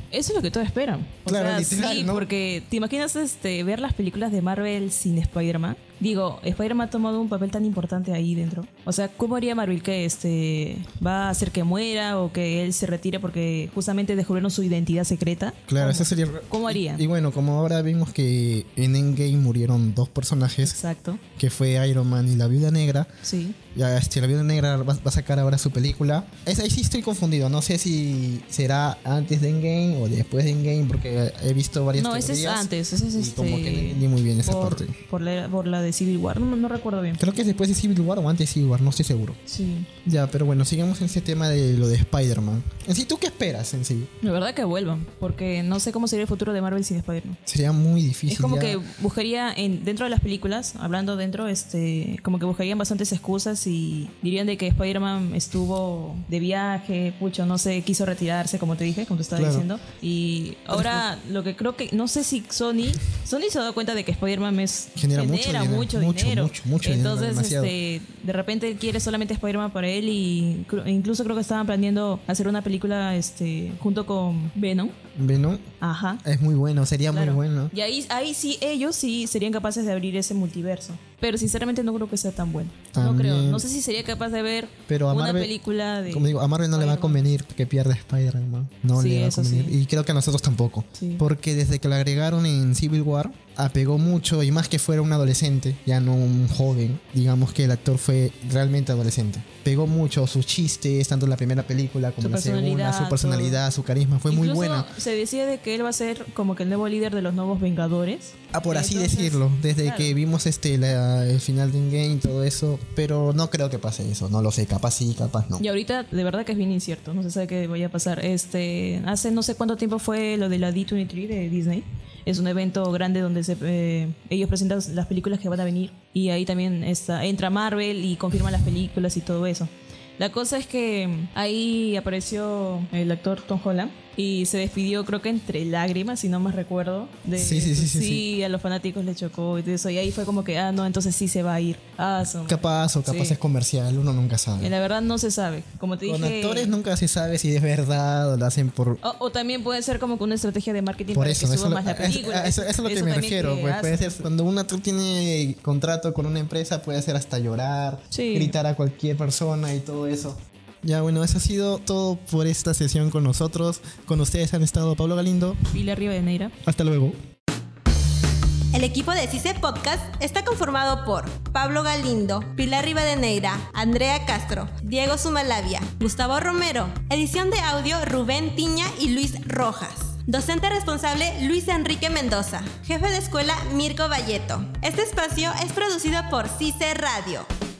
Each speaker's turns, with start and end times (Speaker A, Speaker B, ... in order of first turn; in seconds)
Speaker A: 0.1-17.1, 20.6-21.2, 23.2-23.6, 31.9-37.2, 39.5-39.9, 44.2-47.4, 48.3-75.0, 75.8-76.2, 77.1-87.2, 88.9-89.8, 91.0-91.2, 102.2-103.6, 104.3-110.1, 115.6-143.4, 144.6-146.7, 149.0-154.2, 158.1-158.5, 165.7-166.5
Speaker B: 1.3-2.3, 15.7-20.8, 21.4-23.1, 23.7-34.9, 37.2-39.4, 40.0-44.1, 47.5-48.8, 59.3-59.6, 60.7-61.0, 64.9-67.7, 75.1-75.6, 76.2-77.7, 82.9-83.7, 84.9-85.5, 86.0-104.9, 108.5-115.6, 137.3-138.2, 142.4-144.7, 146.0-149.0, 151.1-165.6, 166.6-167.2
Speaker C: 168.7-187.5